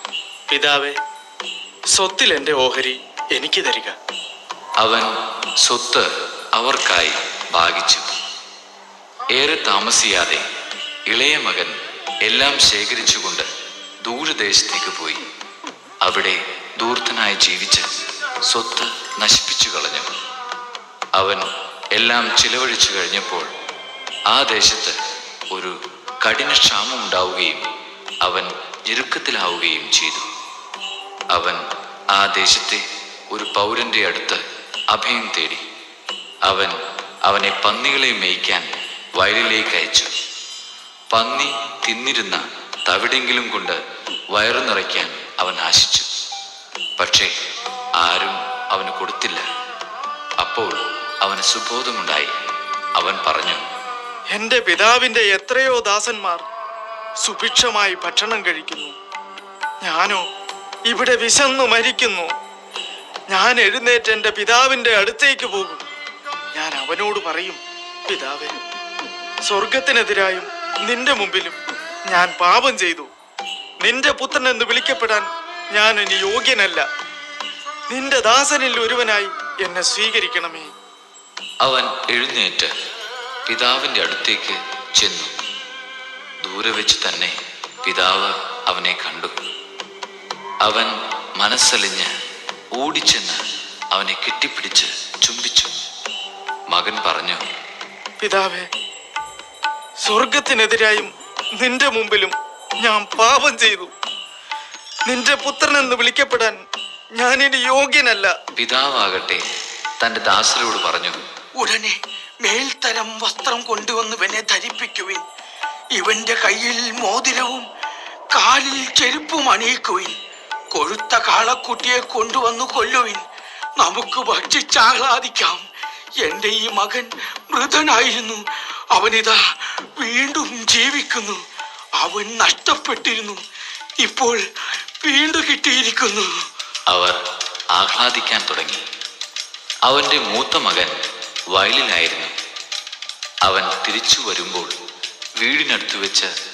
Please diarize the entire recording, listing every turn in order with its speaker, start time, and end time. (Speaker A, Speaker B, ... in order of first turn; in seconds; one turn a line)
Speaker A: 0.5-0.9
Speaker A: 1.9-3.9
Speaker B: 4.8-5.1
Speaker B: 5.6-8.1
Speaker B: 9.3-10.4
Speaker B: 11.1-13.5
Speaker B: 14.0-15.2
Speaker B: 16.0-17.8
Speaker B: 18.5-20.1
Speaker B: 21.1-23.5
Speaker B: 24.3-24.9
Speaker B: 25.5-27.6
Speaker B: 28.2-30.2
Speaker B: 31.3-31.6
Speaker B: 32.1-35.6
Speaker B: 36.4-40.1
Speaker B: 41.1-43.8
Speaker B: 44.3-46.1
Speaker B: 47.0-47.3
Speaker B: 48.0-49.5
Speaker B: 50.4-52.3
Speaker B: 53.0-53.6
Speaker A: 54.3-56.4
Speaker A: 57.2-58.9
Speaker A: 59.8-60.2
Speaker A: 60.9-62.3
Speaker A: 63.3-65.8
Speaker A: 66.5-68.5
Speaker A: 69.5-71.5
Speaker A: 72.1-73.1
Speaker A: 73.8-76.8
Speaker A: 77.9-80.7
Speaker B: 81.6-82.7
Speaker B: 83.5-85.3
Speaker B: 86.4-89.3
Speaker B: 90.6-92.1
Speaker B: 92.7-93.4
Speaker B: 93.9-95.7
Speaker B: 96.7-97.4
Speaker A: 98.2-98.7
Speaker A: 100.0-101.1
Speaker A: 101.6-103.9
Speaker A: 105.1-106.6
Speaker A: 107.2-108.3
Speaker B: 108.6-109.4
Speaker B: 110.0-111.2
Speaker C: 111.6-115.2
Speaker C: 115.9-117.7
Speaker C: 118.3-120.1
Speaker C: 120.7-123.2
Speaker C: 123.8-125.6
Speaker C: 126.2-131.4
Speaker C: 132.0-133.4
Speaker C: 134.0-134.4
Speaker C: 135.0-136.3
Speaker B: 136.9-137.2
Speaker B: 137.7-138.8
Speaker B: 139.8-140.9
Speaker B: 141.5-142.3
Speaker B: 143.4-144.7
Speaker B: 145.4-146.3